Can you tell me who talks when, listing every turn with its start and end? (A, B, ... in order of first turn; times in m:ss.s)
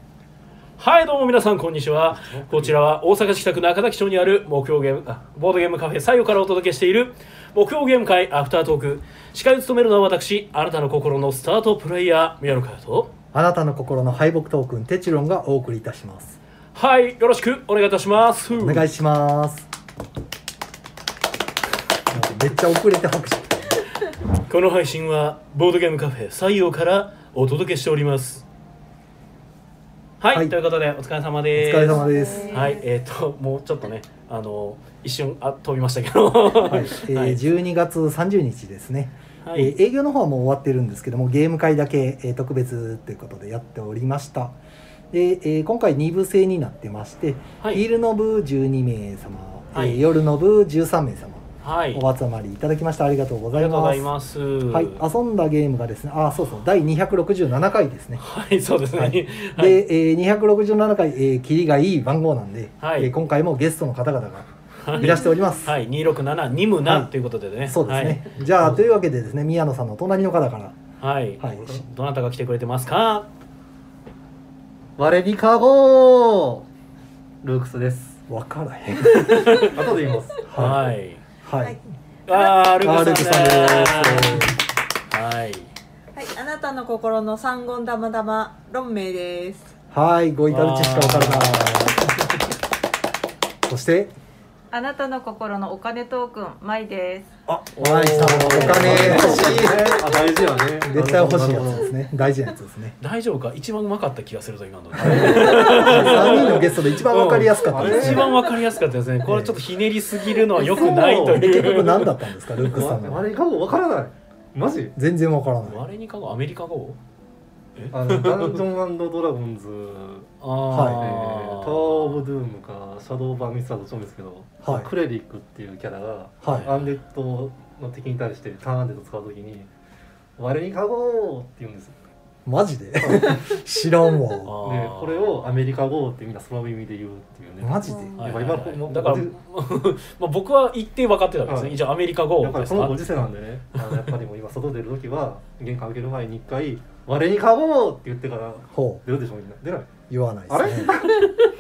0:00.8-0:13.1 A
0:13.3-0:16.4 B
0:16.7-0:18.9 A
0:18.6-0:19.7 B
0:22.1-0:23.8 B
0:24.4-0:28.4 A
0:30.2-0:37.4 A
0:31.5-0:32.5 B
0:31.9-0:32.8 C
0:32.1-0:32.8 D
0:36.6-0:44.6 B
0:39.4-0:39.7 A
0:45.1-0:54.1 B
0:47.6-0:47.9 A
0:49.8-0:50.0 A
0:51.6-0:52.0 A
0:53.5-0:55.0 A
0:54.7-0:58.2 B
0:58.2-0:59.8 A
0:58.9-1:05.8 B
1:02.8-1:03.1 A
1:04.8-1:08.3 A
1:06.8-1:07.1 B
1:07.6-1:10.8 B
1:08.4-1:09.0 E
1:11.0-1:13.3 A
1:15.0-1:16.6 E
1:17.4-1:18.2 E
1:18.3-1:19.7 B
1:19.1-1:19.8 A
1:19.6-1:20.7 E
1:20.5-1:20.8 B
1:20.5-1:21.2 A
1:21.4-1:21.8 B
1:22.3-1:24.6 A
1:22.3-1:24.6 B
1:25.1-1:25.7 A
1:26.1-1:29.7 D
1:29.9-1:32.2 B
1:30.5-1:32.1 A
1:33.6-1:34.1 B
1:34.7-1:37.3 C
1:37.5-1:40.0 B
1:37.8-1:39.5 A
1:37.8-1:42.0 E
1:39.1-1:39.6 C
1:40.8-1:43.0 B
1:43.0-1:46.7 A
1:45.0-1:48.3 B
1:45.0-1:48.3 E
1:47.6-1:52.1 A
1:49.2-1:49.6 B
1:50.5-1:51.9 E
1:51.3-1:53.2 B
1:52.6-1:54.9 E
1:55.0-1:55.8 B
1:55.6-1:57.0 A
1:57.8-1:58.6 A
1:57.9-2:09.7 E
2:00.4-2:02.2 A
2:00.7-2:01.0 B
2:04.6-2:04.9 B
2:06.4-2:06.7 B
2:06.4-2:06.8 A
2:10.4-2:12.0 E
2:12.4-2:14.6 B
2:13.0-2:13.4 E
2:14.4-2:15.4 A
2:14.6-2:19.3 E
2:17.6-2:18.2 B
2:17.9-2:18.2 D
2:18.2-2:23.2 A
2:21.5-2:29.9 E
2:28.7-2:29.0 B
2:30.1-2:31.1 B
2:30.5-2:31.3 E